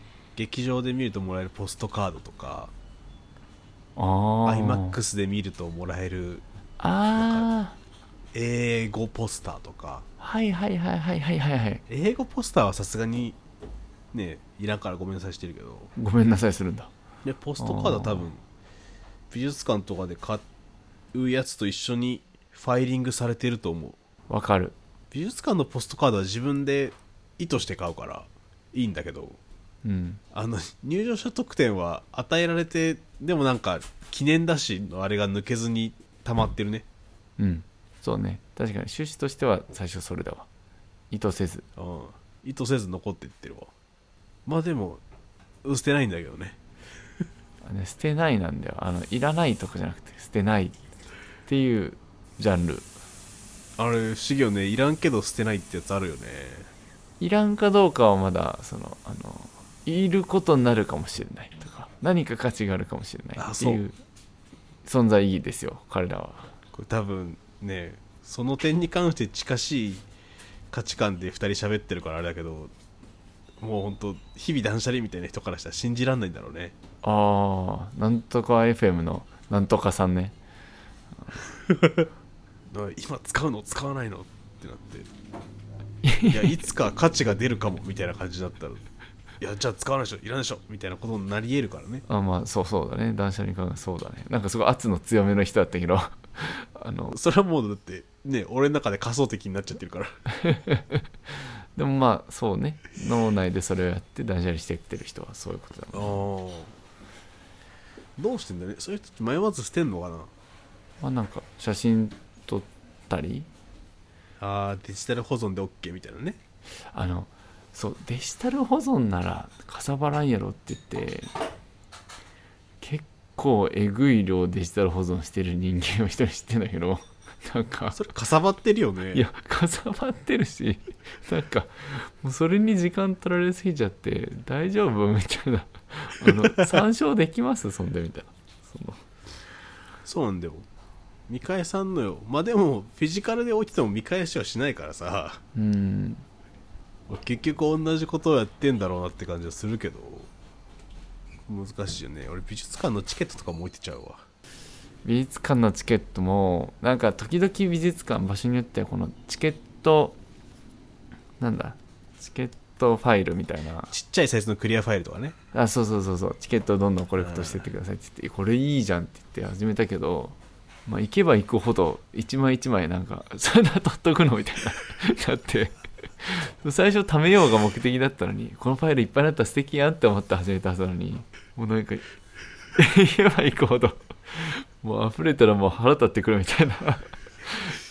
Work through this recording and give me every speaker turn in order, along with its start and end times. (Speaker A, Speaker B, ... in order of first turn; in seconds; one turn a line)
Speaker A: 0.3-2.7
Speaker B: 4.0-5.0
Speaker A: 4.4-6.4
Speaker B: 6.8-7.8
Speaker A: 7.1-7.5
Speaker A: 8.3-10.1
Speaker B: 10.2-11.8
Speaker A: 11.9-13.4
Speaker A: 14.1-15.9
Speaker B: 15.9-16.9
Speaker A: 17.2-18.4
Speaker B: 17.6-18.3
Speaker A: 19.3-20.4
Speaker A: 21.1-24.0
Speaker B: 24.3-24.8
Speaker A: 25.1-29.4
Speaker B: 29.8-30.2
Speaker A: 30.3-36.9
Speaker B: 37.4-40.5
Speaker B: 41.1-41.6
Speaker A: 41.8-43.7
Speaker A: 44.5-45.0
Speaker A: 45.6-46.6
Speaker B: 47.6-50.8
Speaker B: 51.5-52.9
Speaker A: 53.8-56.7
Speaker B: 57.2-64.0
Speaker A: 63.4-63.8
Speaker B: 64.8-66.5
Speaker A: 66.7-70.0
Speaker A: 70.7-72.7
Speaker A: 73.6-76.7
Speaker B: 77.0-80.3
Speaker A: 81.6-82.1
Speaker A: 82.7-85.1
Speaker B: 86.0-86.6
Speaker A: 86.3-88.8
Speaker A: 89.4-92.0
Speaker B: 92.1-97.2
Speaker A: 97.1-100.1
Speaker B: 100.3-106.2
Speaker A: 105.9-106.7
Speaker A: 108.2-110.3
Speaker B: 111.0-113.5
Speaker A: 114.4-116.4
Speaker B: 116.9-121.3
Speaker B: 122.8-128.1
Speaker A: 127.9-129.2
Speaker B: 129.1-139.0
Speaker A: 136.3-136.6
Speaker A: 140.0-140.7
Speaker A: 141.3-145.4
Speaker B: 145.5-146.2
Speaker A: 147.1-150.3
Speaker A: 151.5-154.2
Speaker B: 155.0-160.2
Speaker B: 161.4-163.9
Speaker A: 163.9-165.3
Speaker B: 165.5-182.0
Speaker A: 167.2-167.7
Speaker B: 182.7-187.8